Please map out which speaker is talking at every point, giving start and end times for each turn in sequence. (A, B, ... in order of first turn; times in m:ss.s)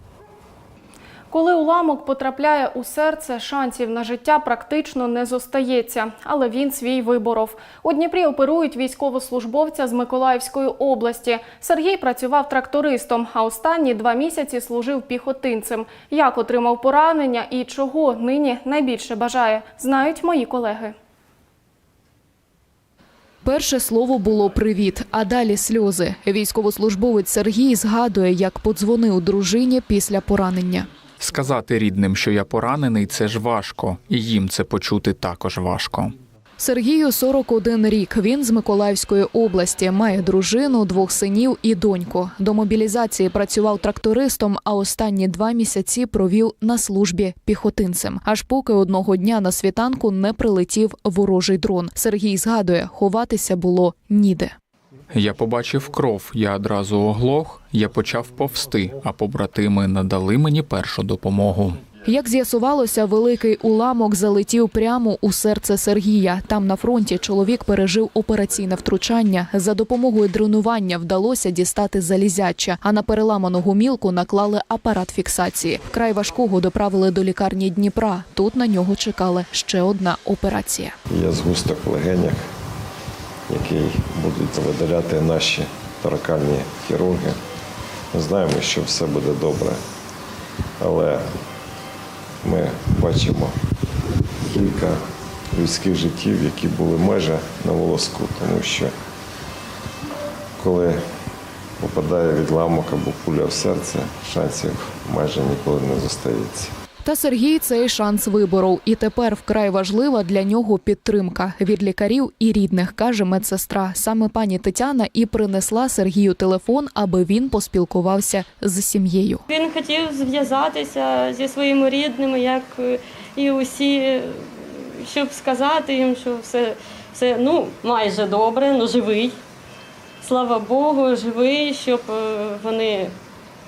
0:01.3-0:20.9 A
0:23.4-0:30.9 B
0:31.2-0:36.1 C
0:36.6-0:54.5 B
0:55.1-1:01.8 C
1:02.0-1:20.9 B
1:21.1-1:22.4 D
1:23.5-1:27.4 D
1:28.1-1:29.8 D
1:30.8-1:31.3 D
1:32.4-1:33.5 D
1:34.5-1:35.0 D
1:35.5-1:38.9 D
1:40.6-1:41.0 D
1:41.8-1:46.7 D
1:47.0-1:59.4 B
1:59.5-2:09.4 E
2:10.2-2:13.1 E